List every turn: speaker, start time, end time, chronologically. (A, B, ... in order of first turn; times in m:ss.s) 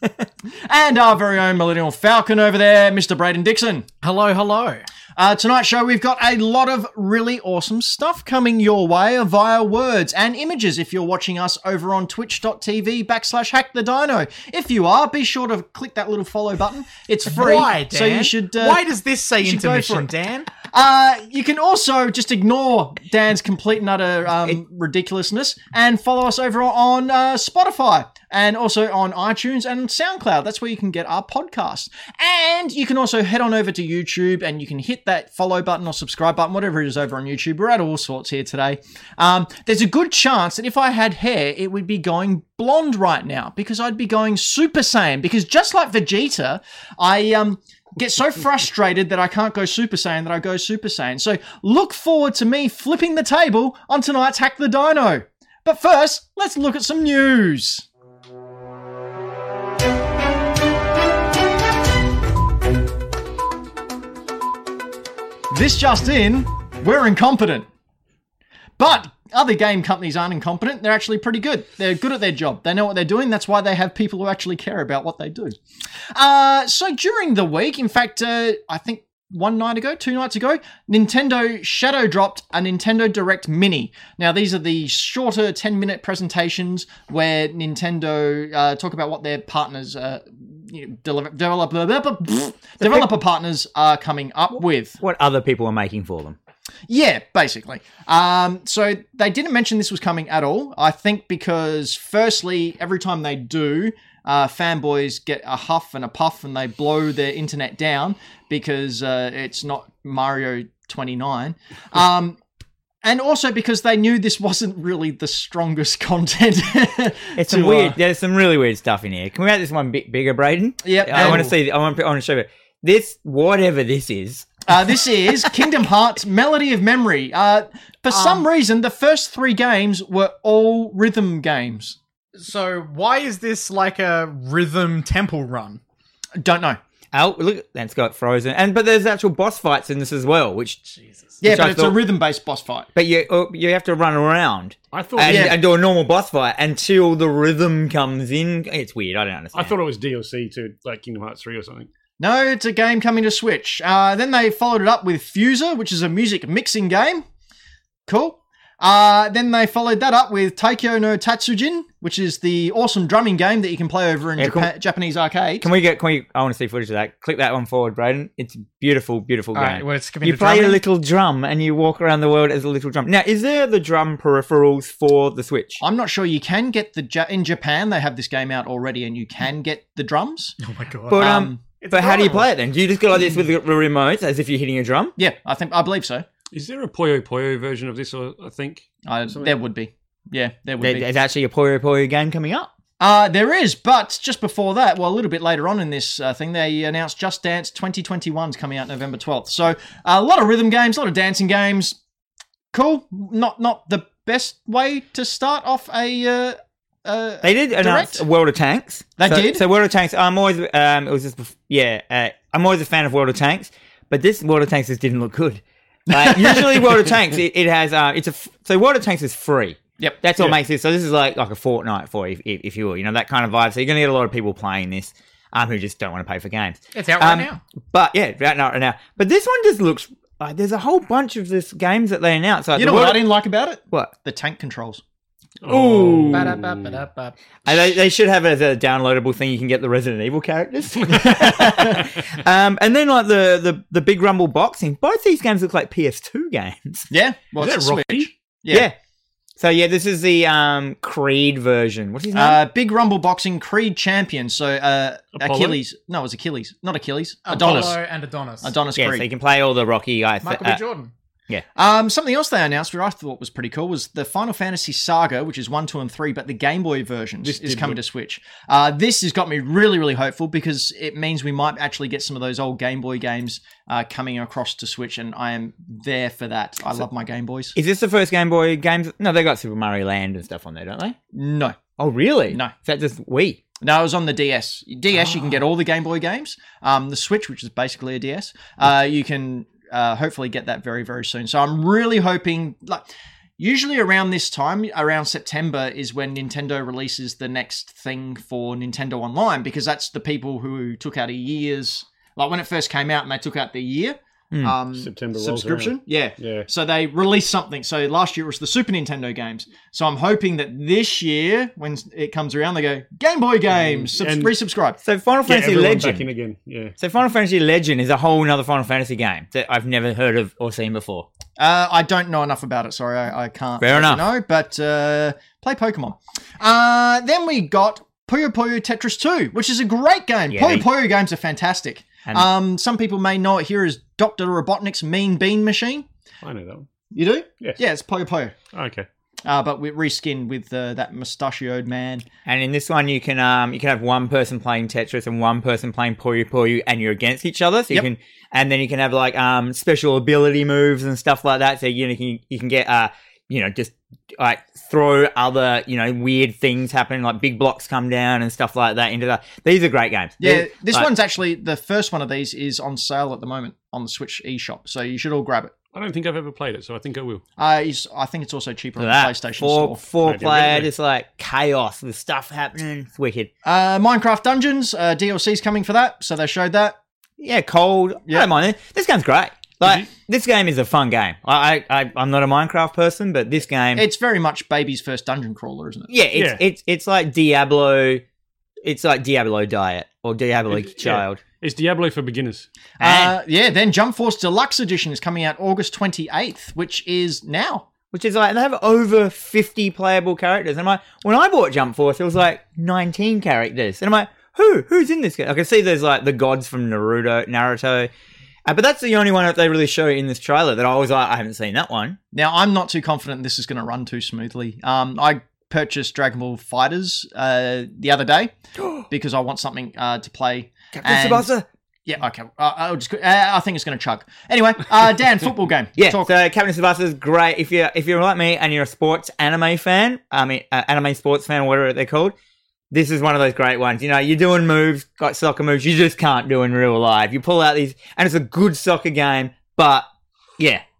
0:00.6-0:03.9 A
0:04.0-0:04.9 B
0:05.2-0:18.8 A
0:17.3-0:20.5 B
0:19.4-0:20.1 A
0:20.6-0:57.9 A
1:05.5-1:07.7 A
1:08.8-1:15.6 A
1:16.1-1:35.0 A
1:32.8-1:33.1 C
1:35.0-1:36.4 C
1:36.9-1:52.4 A
1:53.0-1:58.0 A
1:57.4-2:04.6 C
2:00.8-2:01.5 A
2:04.7-2:12.0 A
2:08.1-2:08.4 B
2:12.4-2:15.8 B
2:16.4-2:16.8 A
2:17.1-2:20.8 C
2:20.9-2:21.4 B
2:21.4-2:22.9 A
2:21.4-2:22.0 C
2:22.9-2:29.7 C
2:24.9-2:25.6 D
2:25.3-2:25.6 A
2:29.5-2:31.9 D
2:32.2-2:37.2 A
2:38.1-2:45.7 A
2:44.4-2:44.7 C
2:45.6-2:55.8 C
2:49.5-2:50.8 B
2:55.8-3:00.6 A
3:00.6-3:02.5 B
3:01.1-3:05.1 C
3:01.1-3:01.6 A
3:05.2-3:06.2 A
3:06.5-3:09.6 D
3:09.0-3:11.1 A
3:10.8-3:12.7 C
3:13.0-3:22.0 A
3:22.7-3:28.2 A
3:27.4-3:53.3 C
3:29.2-3:29.6 A
3:36.1-3:37.1 A
3:46.9-3:47.6 B
3:52.7-3:55.0 A
3:55.6-3:57.0 D
3:55.7-3:56.5 A
3:56.3-3:57.7 B
3:57.6-4:07.0 C
4:01.1-4:02.1 A
4:07.1-4:08.9 A
4:07.6-4:08.3 D
4:09.6-4:12.6 C
4:12.3-4:18.0 A
4:15.4-4:15.8 D
4:17.4-4:18.7 B
4:18.6-4:19.3 A
4:19.0-4:20.8 C
4:20.4-4:21.1 B
4:21.8-4:37.7 A
4:27.4-4:28.0 D
4:37.7-4:41.2 C
4:41.3-4:41.8 A
4:42.0-4:43.6 C
4:43.8-4:53.0 A
4:53.6-5:15.0 A
5:04.9-5:06.7 D
5:13.7-5:14.5 D
5:15.0-5:16.2 C
5:15.5-5:16.9 D
5:17.0-5:21.3 C
5:21.6-5:36.0 A
5:23.8-5:24.2 C
5:30.5-5:30.8 C
5:36.4-5:36.9 D
5:37.1-5:38.5 A
5:38.7-5:39.0 D
5:39.4-5:42.2 A
5:42.4-6:01.1 C
6:00.4-6:05.7 A
6:05.9-6:07.4 D
6:07.6-6:10.0 A
6:09.0-6:13.5 C
6:10.2-6:10.9 D
6:13.6-6:17.0 A
6:17.4-6:24.0 C
6:23.9-6:26.1 A
6:26.1-6:28.2 C
6:26.3-6:26.6 D
6:28.8-6:31.4 C
6:30.7-6:32.7 D
6:33.0-6:33.3 C
6:33.0-6:37.8 A
6:38.1-6:48.1 C
6:48.6-6:52.2 C
6:52.3-6:58.5 A
6:58.8-6:59.0 C
6:59.1-7:01.5 A
7:00.9-7:01.6 C
7:02.1-7:06.3 A
7:06.0-7:12.3 C
7:12.9-7:20.0 C